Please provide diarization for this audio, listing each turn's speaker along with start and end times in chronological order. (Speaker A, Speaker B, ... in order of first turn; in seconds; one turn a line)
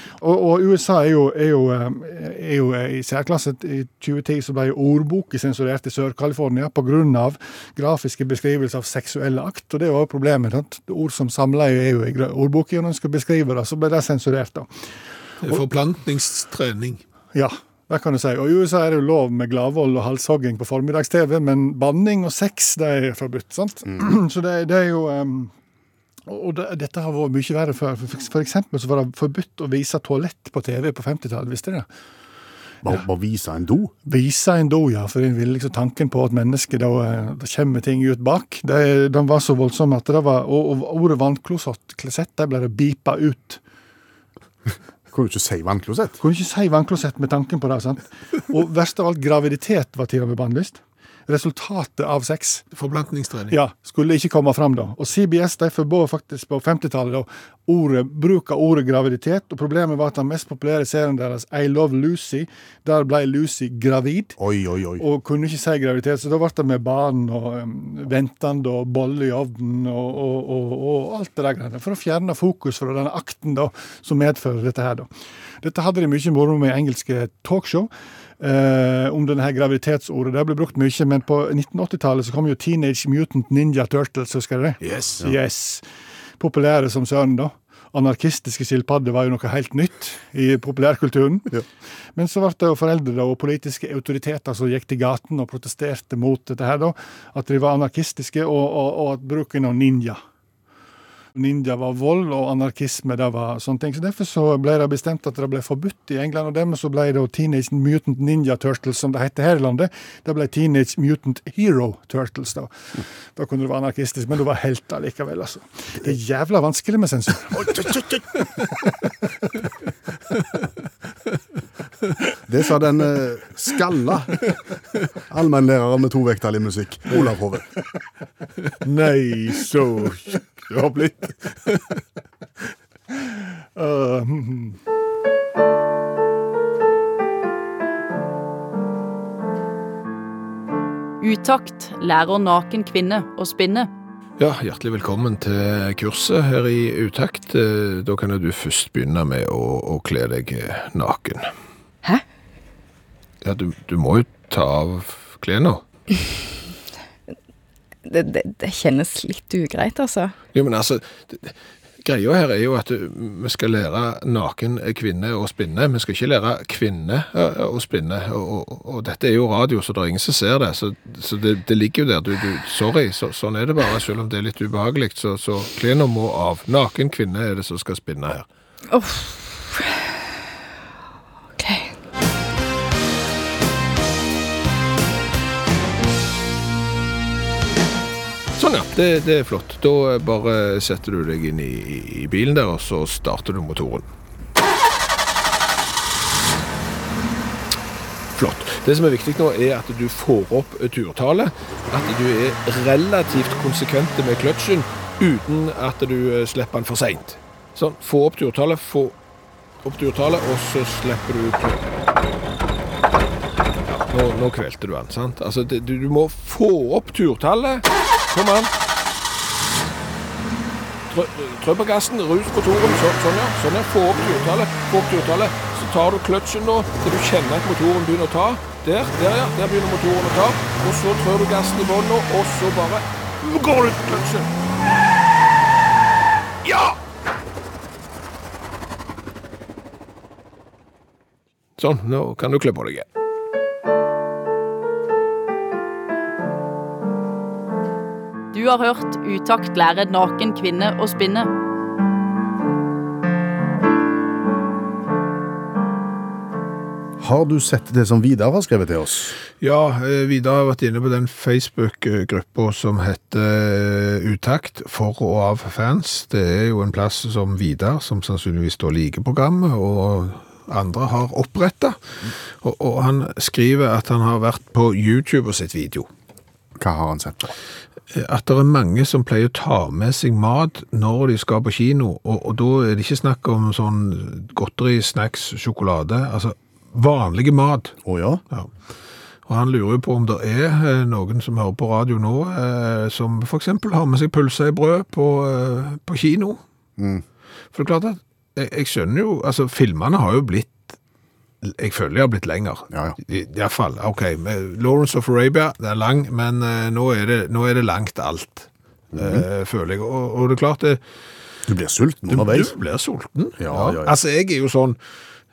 Speaker A: 0.2-14.7
Speaker B: 15.4-17.0
Speaker A: 17.3-25.5
Speaker A: 26.3-31.9
Speaker C: 32.8-33.9
Speaker A: 34.0-43.6
Speaker C: 45.1-46.2
Speaker A: 46.2-52.6
Speaker B: 52.7-53.6
Speaker A: 53.5-64.3
Speaker C: 64.4-65.0
Speaker A: 65.0-75.1
Speaker A: 75.6-85.8
Speaker B: 84.8-85.2
Speaker A: 86.4-91.6
Speaker A: 92.2-100.2
Speaker A: 101.3-112.7
Speaker A: 113.3-117.8
Speaker C: 117.5-118.2
Speaker C: 122.5-124.4
Speaker C: 125.3-127.7
Speaker B: 128.8-132.0
Speaker A: 133.7-134.8
Speaker D: 141.2-143.9
Speaker B: 144.4-151.5
Speaker B: 153.4-155.8
Speaker E: 158.0-160.3
Speaker B: 160.5-178.5
Speaker E: 178.9-180.0
Speaker E: 181.6-181.9
Speaker B: 188.6-194.1
Speaker B: 198.3-209.2
Speaker B: 209.8-211.8
Speaker B: 213.8-218.7
Speaker B: 221.1-234.5
Speaker B: 236.6-237.0
Speaker B: 241.8-243.1
Speaker D: 248.5-251.5
Speaker C: 257.2-259.4
Speaker B: 259.6-272.0
Speaker B: 272.6-276.1
Speaker C: 276.8-277.5
Speaker B: 278.1-287.9
Speaker C: 288.0-288.4
Speaker B: 289.4-296.6
Speaker C: 297.0-297.2
Speaker B: 297.7-300.9
Speaker B: 301.6-311.0
Speaker C: 302.9-303.2
Speaker C: 309.1-309.4
Speaker C: 311.7-312.7
Speaker B: 312.3-315.0
Speaker C: 313.6-314.2